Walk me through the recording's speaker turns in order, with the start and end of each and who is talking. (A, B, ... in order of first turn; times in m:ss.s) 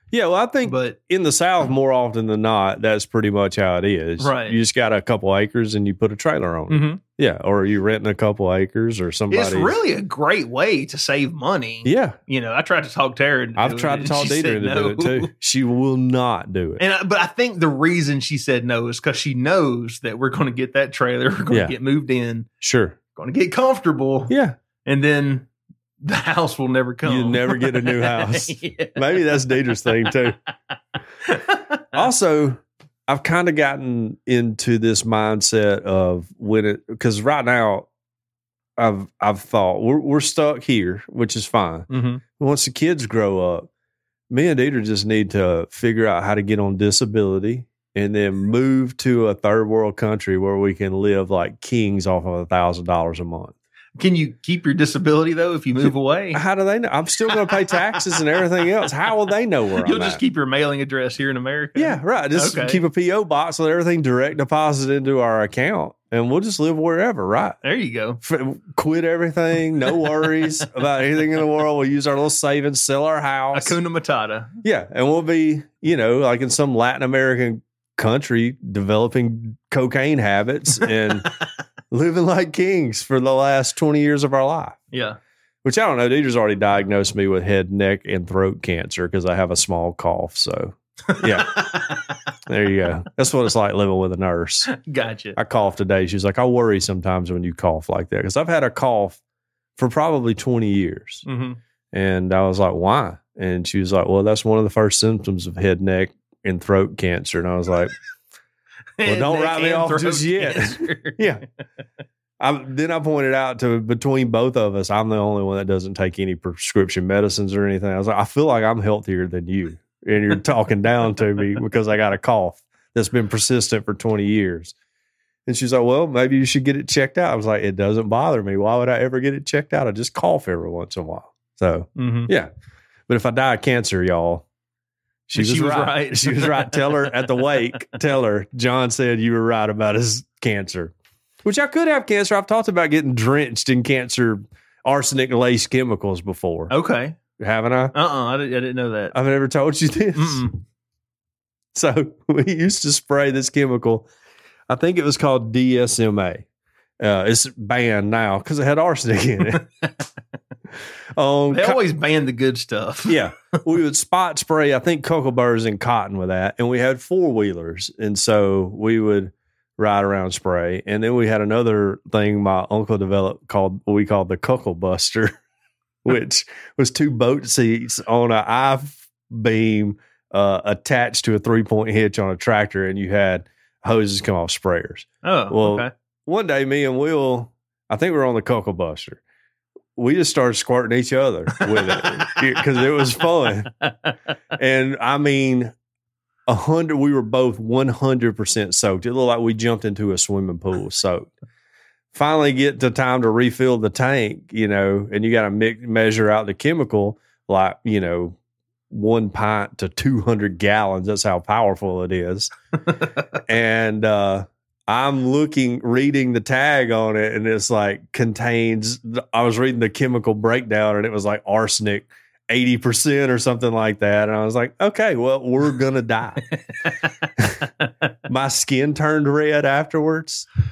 0:00.1-0:09.8 A
0:00.6-0:01.0 B
0:04.2-0:04.6 B
0:06.7-0:07.0 B
0:09.3-0:15.3 B
0:11.8-0:12.2 A
0:13.6-0:16.8 A
0:16.8-0:22.5 B
0:22.6-0:23.0 A
0:23.2-0:25.5 B
0:24.3-0:24.6 A
0:26.0-0:29.0 B
0:27.0-0:30.4 A
0:31.3-0:31.8 B
0:31.9-0:37.9 A
0:38.8-0:43.7 A
0:41.9-0:42.2 B
0:44.3-0:53.6 A
0:54.0-0:56.4 B
0:56.3-1:00.2 A
0:57.5-0:57.8 B
0:59.8-1:02.8 B
1:01.8-1:07.6 A
1:07.6-1:08.2 B
1:08.2-1:13.8 A
1:13.5-1:14.5 B
1:14.6-1:21.3 A
1:21.9-1:24.8 A
1:24.9-1:25.2 B
1:25.6-1:31.7 A
1:31.1-1:32.1 B
1:32.5-1:34.7 A
1:34.7-1:35.4 B
1:35.4-1:39.2 A
1:39.8-1:41.2 A
1:41.3-1:41.6 B
1:41.9-1:47.9 A
1:49.0-1:51.2 B
1:49.0-1:51.4 A
1:52.4-2:04.7 A
2:05.5-2:12.5 A
2:12.0-2:12.3 B
2:13.1-2:14.4 A
2:15.3-2:20.9 A
2:15.4-2:17.0 B
2:21.4-2:26.7 A
2:26.7-2:27.2 B
2:27.4-2:27.9 A
2:27.9-2:29.1 B
2:29.1-2:30.4 A
2:30.2-2:30.6 B
2:31.7-2:34.1 A
2:34.7-2:36.4 A
2:37.0-2:39.6 A
2:41.2-2:41.8 A
2:41.5-2:43.2 B
2:43.1-2:55.4 A
2:56.0-3:09.2 A
3:05.2-3:05.9 B
3:10.0-3:13.7 A
3:11.7-3:12.2 B
3:14.6-3:15.7 A
3:16.5-3:21.3 A
3:22.1-3:28.4 A
3:28.9-3:32.5 A
3:33.4-3:46.4 A
3:47.4-3:47.6 A
3:48.3-3:50.5 A